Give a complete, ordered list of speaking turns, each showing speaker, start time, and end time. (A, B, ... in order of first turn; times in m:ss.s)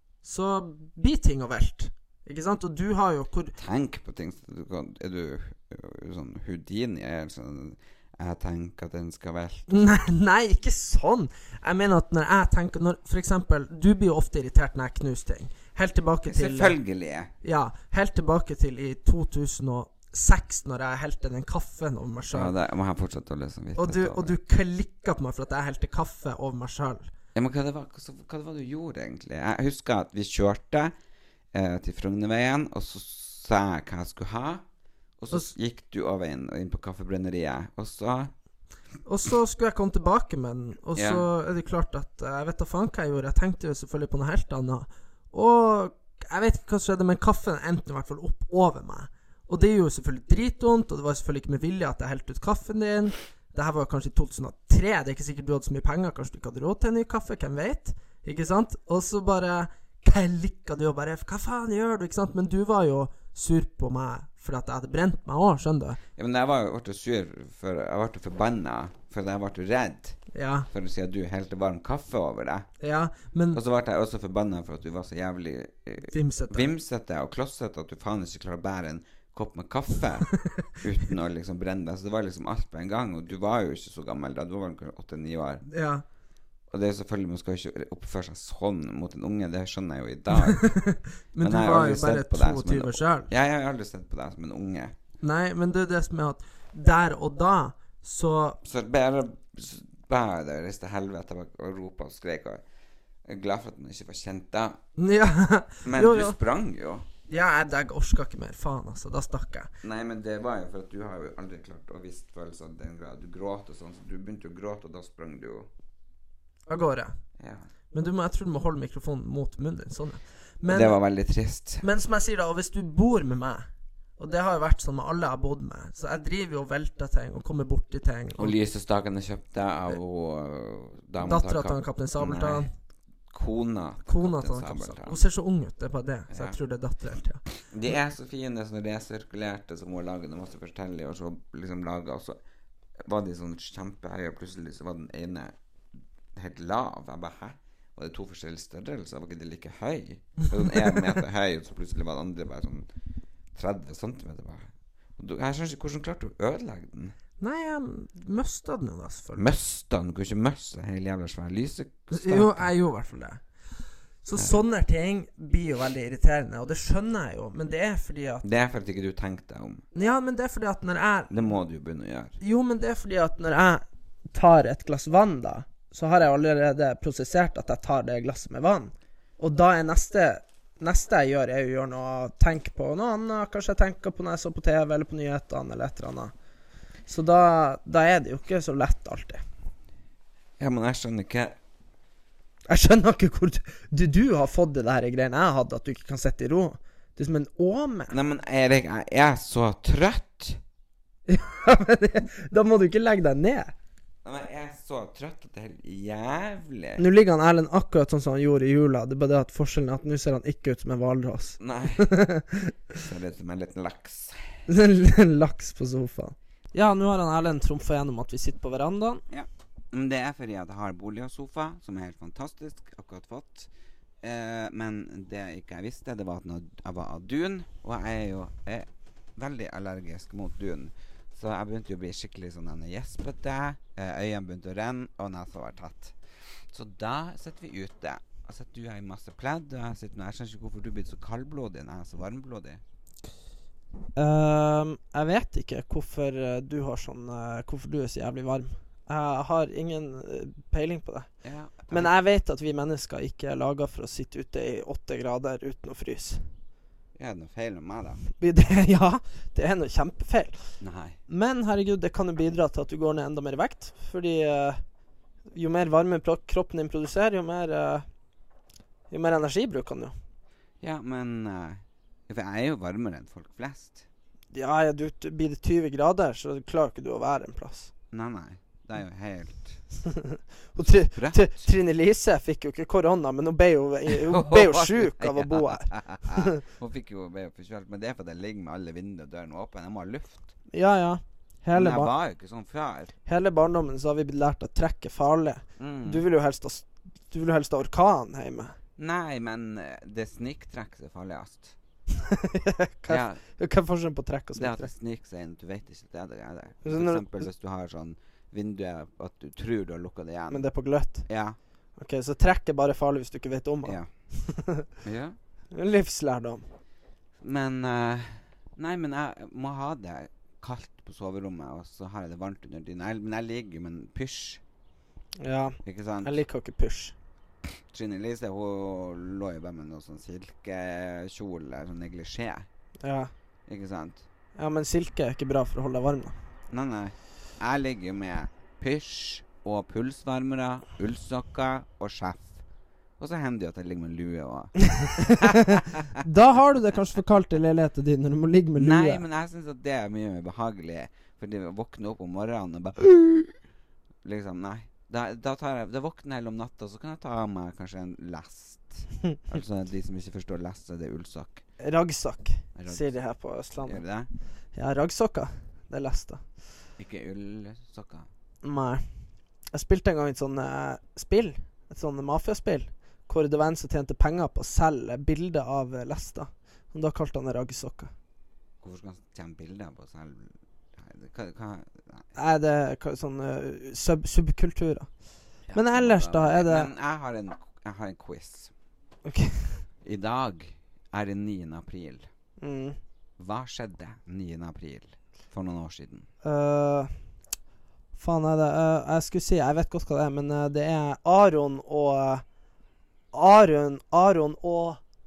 0:00.2-0:03.6 A
0:03.6-0:10.0 B
0:09.7-0:16.8 A
0:16.3-0:17.3 B
0:17.4-0:22.6 A
0:22.3-0:24.3 B
0:23.8-0:27.1 A
0:27.4-0:30.9 B
0:31.5-0:34.6 B
0:35.2-0:38.3 B
0:39.0-1:06.0 A
0:41.0-0:41.3 B
1:06.2-1:10.2 B
1:10.3-1:10.7 A
1:10.7-1:12.7 B
1:12.8-1:13.6 A
1:13.5-1:25.6 B
1:16.1-1:16.7 A
1:25.7-1:26.0 A
1:26.7-1:30.8 B
1:30.3-1:33.3 A
1:31.4-1:35.0 B
1:35.2-1:38.6 A
1:38.6-1:42.6 B
1:43.3-1:44.8 B
1:45.0-1:46.4 A
1:45.8-1:47.1 B
1:47.3-1:49.7 A
1:49.8-1:55.7 B
1:56.7-1:57.2 A
1:57.4-1:57.7 B
1:57.9-2:01.0 A
2:00.7-2:01.8 B
2:01.8-2:03.6 A
2:04.2-2:08.6 A
2:08.4-2:12.7 B
2:11.2-2:12.7 A
2:13.3-2:15.2 B
2:14.1-2:17.4 A
2:16.3-2:16.6 B
2:17.6-2:22.4 B
2:23.0-2:25.6 B
2:26.3-2:32.9 B
2:33.6-2:37.2 B
2:37.4-2:39.6 A
2:39.4-2:42.7 B
2:42.1-2:43.4 A
2:44.2-2:48.4 A
2:48.4-2:49.8 B
2:49.9-2:51.3 A
2:51.3-2:52.4 B
2:52.4-3:06.3 A
3:07.1-3:09.4 A
3:10.6-3:11.6 B
3:12.7-3:18.2 A
3:18.1-3:20.6 B
3:21.3-3:23.7 A
3:24.2-3:27.0 B
3:27.0-3:32.7 A
3:31.6-3:32.2 B
3:33.0-3:34.4 B
3:34.7-3:39.2 A
3:39.3-3:43.7 B
3:44.2-3:56.2 B
3:56.7-4:02.8 B
4:04.2-4:11.3 A
4:11.4-4:12.1 B
4:11.9-4:16.4 A
4:17.2-4:18.2 B
4:18.4-4:20.6 A
4:20.8-4:21.2 B
4:21.3-4:24.8 A
4:25.5-4:28.0 A
4:29.1-4:30.1 A
4:30.8-4:34.1 B
4:34.5-4:37.9 A
4:38.1-4:39.8 B
4:40.1-4:46.6 A
4:41.0-4:41.7 B
4:44.1-4:50.5 B
4:50.7-4:52.1 A
4:51.7-4:53.1 B
4:53.3-4:58.8 A
4:55.8-4:56.2 B
4:59.0-5:01.8 B
5:02.2-5:04.9 A
5:03.1-5:03.4 B
5:04.6-5:10.7 B
5:06.8-5:07.3 A
5:10.5-5:11.3 A
5:11.3-5:11.6 B
5:12.0-5:14.9 A
5:13.8-5:14.1 B
5:15.0-5:15.4 B
5:15.7-5:16.6 A
5:17.4-5:24.6 B
5:25.4-5:27.2 A
5:25.8-5:26.4 B
5:27.9-5:32.7 B
5:33.0-5:33.3 A
5:33.7-5:34.2 B
5:34.6-5:36.4 A
5:36.7-5:42.6 B
5:43.2-5:46.2 B
5:45.0-5:49.2 A
5:48.8-5:53.5 B
5:54.2-6:01.6 B
6:01.8-6:04.0 A
6:02.8-6:03.1 B
6:03.8-6:04.3 B
6:04.8-6:06.4 A
6:07.0-6:08.3 B
6:08.6-6:09.0 A
6:09.7-6:18.1 A
6:18.8-6:22.3 B
6:22.4-6:25.1 A
6:25.7-6:28.7 B
6:25.7-6:26.9 A
6:29.3-6:29.8 A
6:30.0-6:32.3 B
6:32.6-6:33.0 A
6:33.4-6:36.3 B
6:36.4-6:37.1 A
6:38.2-6:42.4 A
6:43.3-6:45.0 A